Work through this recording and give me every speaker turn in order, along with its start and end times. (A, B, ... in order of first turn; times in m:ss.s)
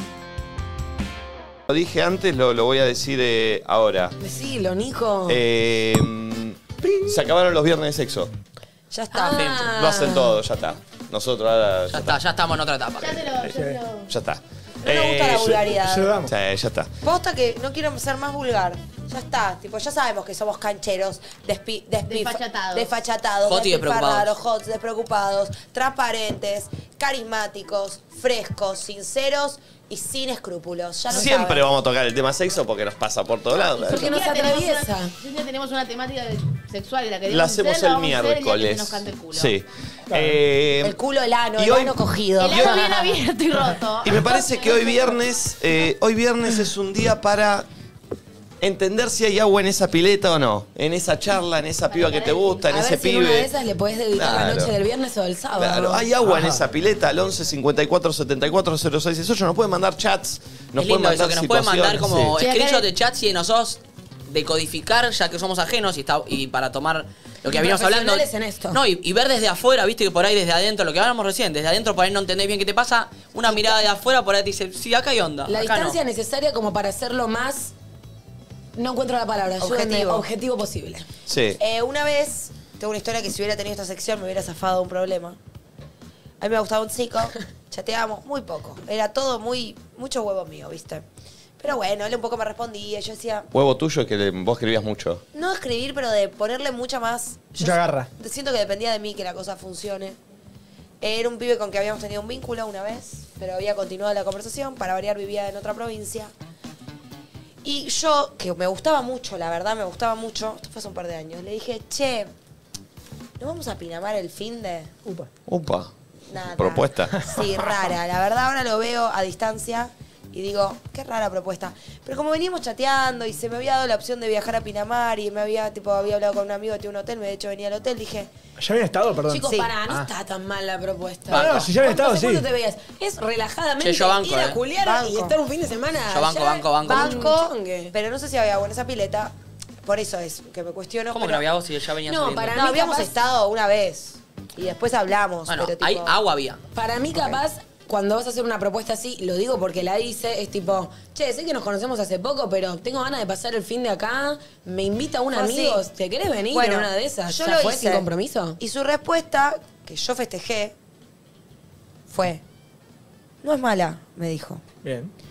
0:01.7-0:04.2 A
0:04.2-0:05.4 B
0:05.3-0:08.3 A
0:06.8-0:07.3 C
0:08.9-0:09.5 D
0:09.1-0:10.4 B
0:09.3-0:09.6 E
0:09.5-0:12.2 A
0:11.9-0:13.3 E
0:13.0-0:14.1 F
0:13.5-0:13.8 C
0:14.1-0:16.9 A
0:14.8-0:16.1 D
0:15.8-0:16.3 C
0:17.0-0:31.6 D
0:22.1-0:22.9 F
0:23.4-0:24.3 E
0:31.1-0:34.2 A
0:33.6-0:39.5 F
0:33.8-0:35.1 B
0:37.3-0:41.0 A
0:40.1-0:40.4 C
0:40.8-0:43.1 B
0:41.6-0:42.8 A
0:42.4-0:45.1 F
0:44.0-0:47.7 A
0:48.6-0:53.5 A
0:51.9-0:52.7 F
0:52.7-0:56.1 B
0:54.1-0:54.7 A
0:55.5-1:02.4 A
0:56.2-0:56.6 C
1:00.8-1:16.0 E
1:02.4-1:02.8 F
1:07.4-1:08.8 B
1:13.5-1:13.7 B
1:15.5-1:17.7 B
1:18.8-1:21.0 B
1:19.6-1:20.2 D
1:21.3-1:21.6 A
1:21.6-1:25.4 D
1:26.4-1:31.0 D
1:31.6-1:33.5 D
1:33.5-1:35.2 A
1:35.3-1:40.2 D
1:37.6-1:38.1 C
1:41.0-1:46.3 D
1:47.6-1:52.3 D
1:53.4-1:54.9 D
1:55.5-1:57.2 A
1:56.3-2:08.3 D
1:57.2-1:57.4 C
2:08.6-2:10.1 C
2:09.3-2:17.9 B
2:09.4-2:09.7 D
2:11.3-2:12.5 C
2:11.3-2:11.7 E
2:13.8-2:14.6 E
2:14.8-2:15.4 D
2:16.1-2:17.2 E
2:16.9-2:21.4 D
2:21.1-2:22.6 E
2:22.0-2:23.1 B
2:22.5-2:26.1 D
2:25.5-2:26.6 E
2:26.7-2:38.6 B
2:27.1-2:27.4 D
2:35.3-2:35.8 D
2:36.5-2:38.0 D
2:38.6-2:40.7 D
2:42.1-2:42.4 D
2:43.4-2:44.6 D
2:44.8-2:45.1 C